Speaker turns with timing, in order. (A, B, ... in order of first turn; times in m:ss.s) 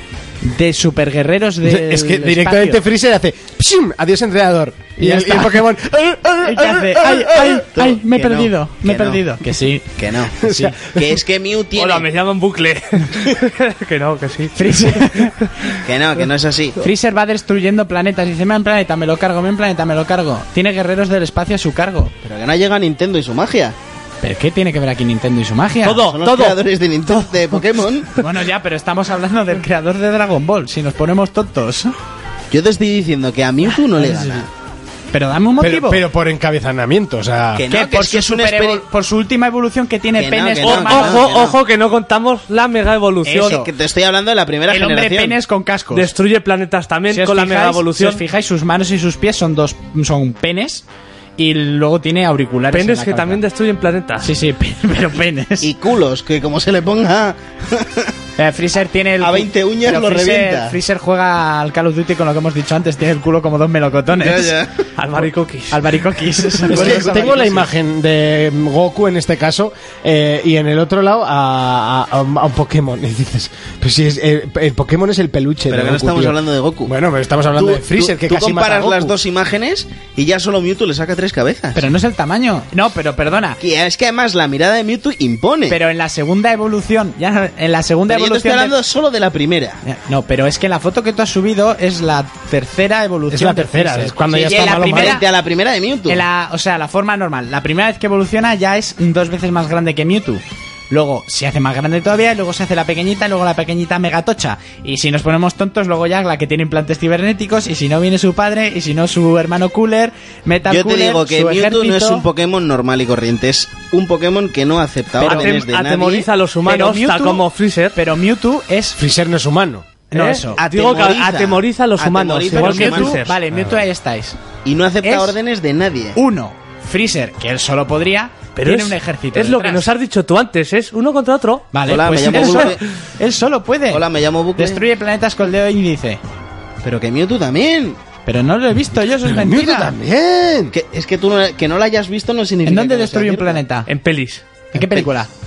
0:00.4-0:02.8 A
0:01.6-0:07.7 B
0:05.0-0:05.7 A
0:06.4-0:10.7 A
0:07.7-0:09.2 C
0:10.0-0:12.1 C
0:10.4-0:11.2 B
0:11.8-0:15.5 D
0:14.6-0:15.5 A
0:15.8-0:16.8 C
0:16.8-0:22.1 A
0:22.2-0:23.8 C
0:24.2-0:26.1 A
0:25.8-0:26.6 D
0:26.0-0:28.2 C
0:28.2-0:31.9 A
0:32.5-0:34.5 C
0:34.0-0:34.3 A
0:35.1-0:36.0 A
0:35.6-0:37.6 B
0:37.6-0:38.8 C
0:37.7-0:41.3 A
0:40.2-0:41.6 C
0:40.6-0:43.6 D
0:43.2-0:43.7 A
0:43.4-0:45.4 C
0:44.7-0:46.1 A
0:45.9-0:48.2 D
0:47.1-0:50.8 A
0:51.4-0:53.4 A
0:52.7-0:54.3 D
0:54.2-0:55.7 A
0:55.6-0:58.1 C
0:58.4-1:04.6 A
0:59.2-1:00.8 C
1:04.2-1:04.9 C
1:05.0-1:05.9 D
1:05.7-1:07.6 A
1:06.7-1:19.2 B
1:06.7-1:07.5 C
1:15.7-1:16.9 C
1:17.5-1:21.8 C
1:21.8-1:23.6 A
1:23.6-1:25.8 C
1:25.7-1:28.8 A
1:28.1-1:29.8 C
1:29.8-1:35.2 A
1:33.3-1:35.2 B
1:34.3-1:36.2 C
1:36.1-1:52.3 A
1:50.7-1:56.3 C
1:55.2-1:55.6 A
1:55.2-1:58.0 D
1:56.7-1:57.4 A
1:58.0-1:59.0 A
1:59.0-1:59.9 B
2:00.1-2:00.6 A
2:00.1-2:03.4 D
2:00.6-2:03.2 C
2:02.5-2:04.4 A
2:04.6-2:06.2 C
2:05.0-2:05.4 A
2:06.2-2:09.9 A
2:08.6-2:12.7 D
2:11.7-2:16.2 A
2:11.8-2:12.8 C
2:13.9-2:14.8 C
2:16.8-2:18.0 C
2:18.3-2:19.9 A
2:19.3-2:20.7 B
2:20.7-2:23.6 C
2:22.6-2:23.9 A
2:23.9-2:24.4 D
2:24.7-2:25.3 A
2:24.8-2:25.1 C